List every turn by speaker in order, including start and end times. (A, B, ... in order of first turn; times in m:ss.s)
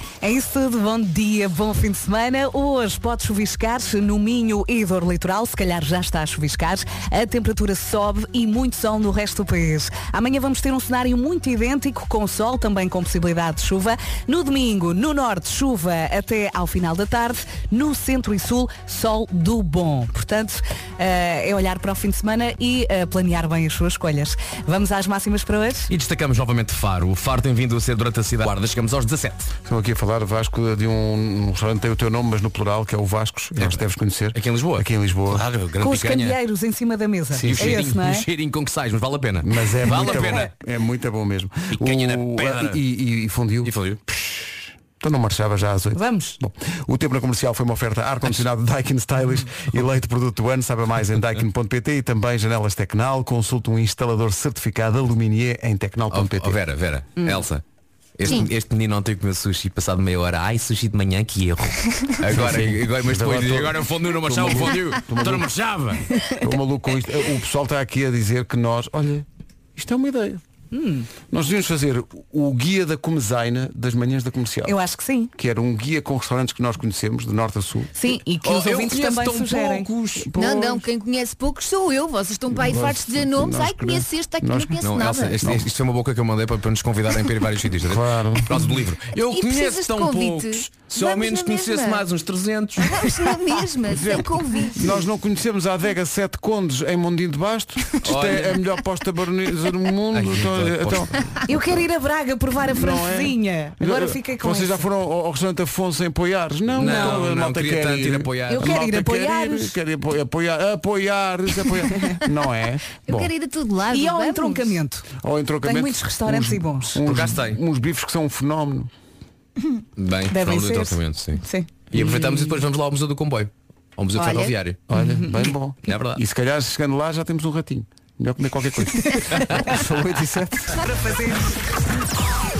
0:00.2-0:25.9 A
0:25.9-0:29.5 B
0:29.6-0:35.5 C
0:34.3-0:36.4 B
0:35.8-0:38.3 A
0:37.3-0:37.8 C
0:37.4-0:40.5 B
0:39.4-0:56.6 C
0:39.9-0:40.4 A
0:41.7-0:42.8 B
0:43.6-0:44.0 B
0:45.9-0:46.4 A
0:56.1-0:57.6 B
0:57.2-0:57.5 A
0:58.2-1:06.1 B
1:02.3-1:05.5 C
1:06.4-1:10.4 C
1:10.7-1:11.1 A
1:11.2-1:14.8 C
1:14.6-1:15.3 A
1:15.4-1:17.9 C
1:18.0-1:19.9 A
1:18.4-1:20.3 B
1:20.2-1:20.8 C
1:20.3-1:25.4 D
1:22.5-1:24.8 C
1:24.8-1:33.1 B
1:25.4-1:25.7 C
1:27.8-1:28.8 C
1:29.2-1:32.0 D
1:32.8-1:34.9 D
1:33.9-1:41.2 C
1:38.0-1:38.6 B
1:40.1-1:41.1 B
1:41.5-1:44.8 A
1:42.7-1:53.3 C
1:46.7-1:48.8 B
1:46.8-1:47.3 A
1:48.4-1:49.8 A
1:51.9-1:52.2 A
1:53.0-1:54.8 D
1:53.9-1:55.1 A
1:55.2-1:58.9 C
1:55.6-1:57.0 A
1:57.0-1:57.6 B
2:00.0-2:04.8 B
2:00.3-2:02.6 A
2:04.1-2:04.6 D
2:04.9-2:10.8 C
2:04.9-2:05.5 A
2:05.8-2:06.2 B
2:10.7-2:11.6 A